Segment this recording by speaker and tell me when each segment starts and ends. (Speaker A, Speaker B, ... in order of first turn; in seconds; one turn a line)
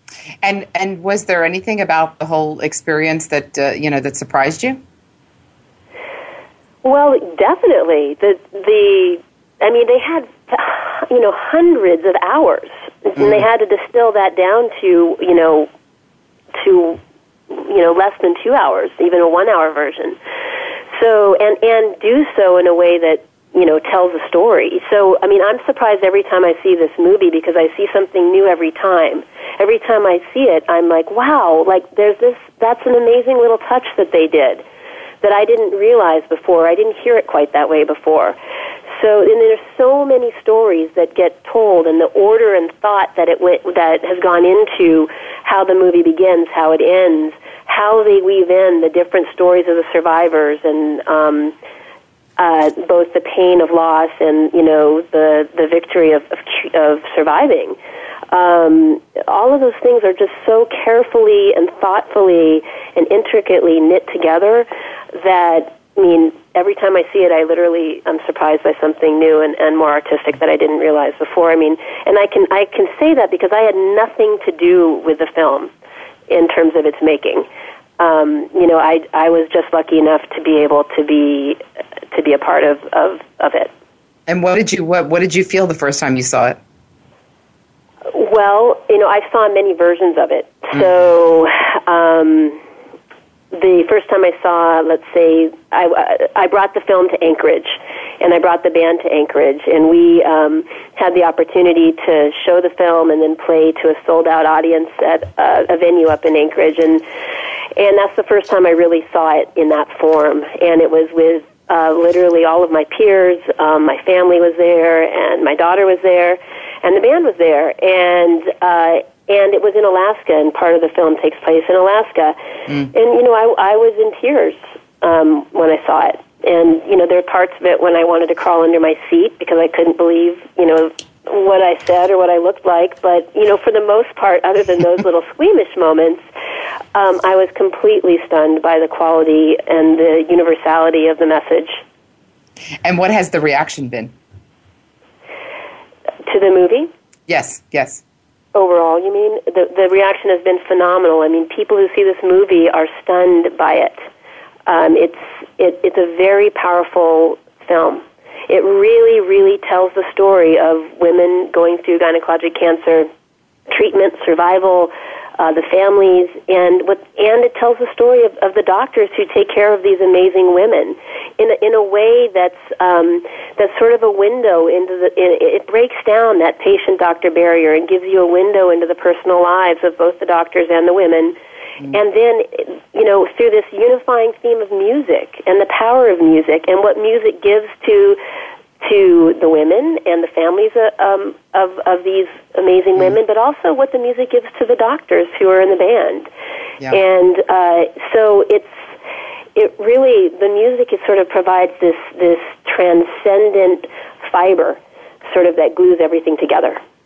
Speaker A: 0.4-4.8
Speaker B: 6.8-15.7
Speaker A: 13.2-13.4
Speaker B: 16.6-17.0
Speaker B: 17.5-20.2
Speaker B: 20.9-34.6
Speaker B: 35.2-38.4
Speaker B: 38.9-51.5
Speaker B: 52.4-57.8
Speaker B: 58.3-75.7
Speaker B: 76.3-77.5
Speaker B: 78.0-81.6
Speaker B: 82.1-83.7
Speaker A: 84.3-86.6
Speaker B: 88.1-92.6
Speaker B: 93.5-107.0
Speaker B: 107.8-122.3
Speaker B: 122.9-136.2
Speaker B: 136.9-141.8
Speaker A: 142.8-144.1
Speaker B: 146.2-146.9
Speaker A: 147.3-148.0
Speaker B: 148.5-154.0
Speaker B: 154.7-163.1
Speaker B: 163.7-181.3
Speaker B: 181.9-188.2
Speaker B: 188.8-196.3
Speaker B: 196.9-198.8
Speaker B: 199.6-206.8